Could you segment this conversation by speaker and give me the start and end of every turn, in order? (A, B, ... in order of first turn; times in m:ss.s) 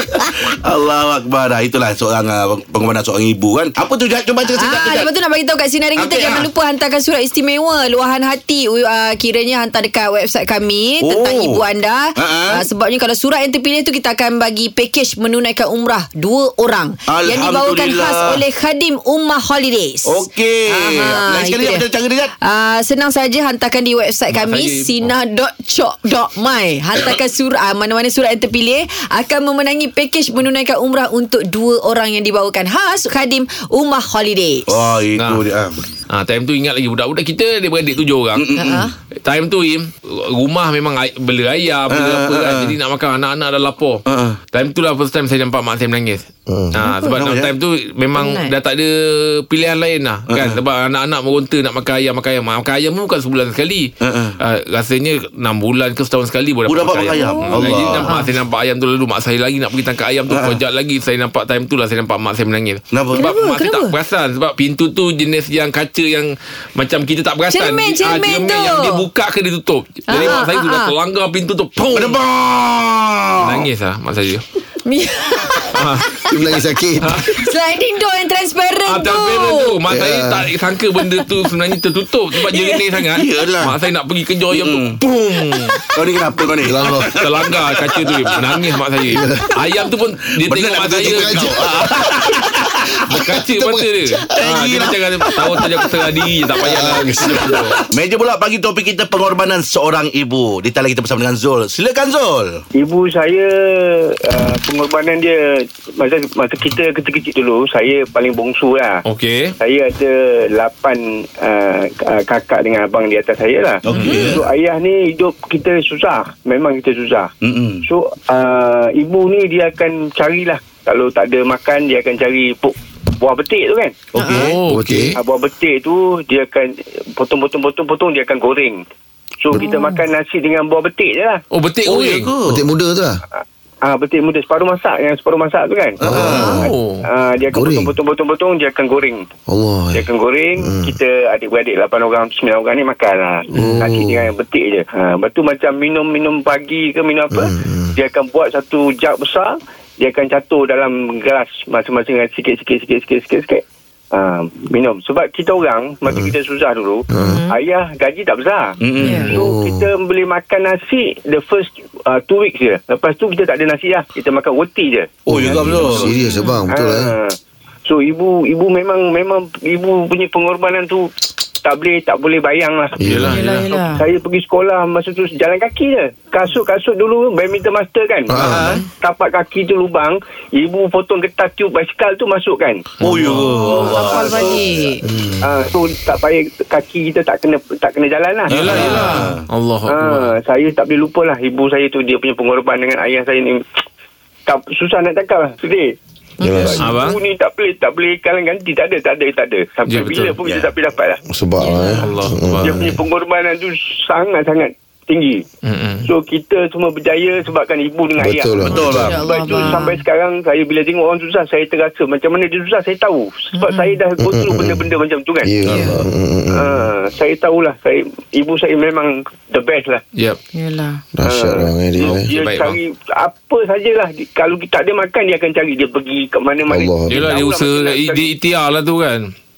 0:00.5-0:05.1 A
0:04.6-0:21.8 B
0:06.0-0:06.5 A
0:11.0-0:11.6 A
0:12.2-0:12.7 A
0:17.1-0:18.4 A
0:20.1-0:22.3 A
0:22.4-0:34.7 B
0:24.3-0:25.1 C
0:34.7-0:35.8 A
0:35.2-0:35.4 C
0:36.1-0:38.5 C
0:38.4-0:38.9 A
0:38.6-0:38.9 B
0:39.2-0:44.0 C
0:41.9-0:42.7 A
0:44.1-0:44.4 A
0:44.5-1:12.2 C
0:46.5-0:46.8 D
0:46.8-0:47.1 B
0:47.1-0:47.5 A
0:48.2-0:48.5 B
0:50.3-0:50.6 A
0:54.0-0:54.4 A
0:56.7-0:58.2 A
0:57.1-0:58.3 B
1:00.3-1:00.6 A
1:02.9-1:03.3 A
1:03.2-1:04.0 B
1:07.5-1:09.0 B
1:10.1-1:10.9 B
1:11.9-1:13.7 A
1:13.4-1:14.4 C
1:14.8-1:16.3 B
1:15.7-1:16.1 C
1:16.3-1:17.2 D
1:17.0-1:17.4 C
1:17.4-1:19.8 B
1:18.9-1:25.7 C
1:19.9-1:20.5 D
1:22.4-1:23.1 B
1:23.2-1:23.7 A
1:24.5-1:25.0 A
1:25.5-1:25.8 B
1:26.0-1:28.6 A
1:26.6-1:27.2 D
1:27.2-1:32.0 C
1:29.1-1:29.5 D
1:30.5-1:32.8 A
1:31.0-1:32.3 D
1:33.0-1:34.4 D
1:33.1-1:37.8 C
1:34.4-1:35.9 A
1:35.5-1:35.9 D
1:36.6-1:37.8 D
1:36.8-1:42.6 A
1:42.8-1:49.0 E
1:49.1-1:49.5 C
1:49.6-1:57.3 E
1:53.8-1:54.4 A
1:53.9-1:54.3 C
1:57.4-1:57.8 A
1:57.8-2:04.0 E
2:04.1-2:04.6 A
2:04.2-2:04.4 B
2:04.3-2:05.1 C
2:04.7-2:05.2 D
2:05.2-2:08.8 E
2:09.4-2:11.4 E
2:09.6-2:10.0 B
2:11.5-2:12.3 C
2:11.9-2:12.6 A
2:12.4-2:13.2 D
2:13.8-2:19.3 E
2:16.0-2:16.6 A
2:16.0-2:16.6 D
2:16.3-2:16.6 B
2:16.6-2:17.0 C
2:17.5-2:17.9 D
2:19.5-2:20.0 D
2:19.9-2:45.1 E
2:20.6-2:21.0 D
2:23.5-2:24.3 D
2:27.3-2:27.9 D
2:37.1-2:37.4 D
2:37.2-2:37.6 B
2:38.8-2:39.3 A
2:39.0-2:39.3 B
2:39.1-2:39.3 C
2:39.3-2:39.9 D
2:45.3-2:46.1 A
2:45.3-2:47.2 D
2:46.3-2:46.6 B
2:46.7-2:51.1 E
2:51.6-2:53.0 E
2:53.0-2:53.3 D
2:53.0-2:53.9 C
2:53.3-2:54.1 B
2:53.9-3:02.8 E
2:58.3-2:58.8 D
2:58.4-2:58.8 A
3:03.0-3:04.2 C
3:03.0-3:04.4 A
3:03.5-3:09.0 E
3:03.7-3:05.0 B
3:05.1-3:05.3 A
3:08.5-3:09.4 A
3:08.5-3:10.4 C
3:09.9-3:13.6 E
3:14.5-3:21.2 E
3:16.4-3:16.9 B
3:16.4-3:16.9 D
3:16.8-3:17.2 C
3:19.9-3:20.4 C
3:20.4-3:20.7 A
3:21.3-3:23.0 D
3:21.6-3:22.1 B
3:22.0-3:22.8 C
3:22.6-3:25.4 E
3:25.6-3:26.1 C
3:26.0-3:35.5 E
3:28.2-3:29.2 D
3:28.7-3:29.2 A
3:28.8-3:30.0 B
3:33.6-3:34.0 B
3:34.2-3:34.9 D
3:35.4-3:36.9 D
3:35.6-3:35.9 B
3:35.8-3:36.1 A
3:36.5-3:40.0 E
3:40.5-3:41.0 B
3:41.2-3:42.3 D
3:41.2-3:48.2 E
3:42.0-3:42.8 C
3:46.7-3:47.4 D
3:47.1-3:49.3 C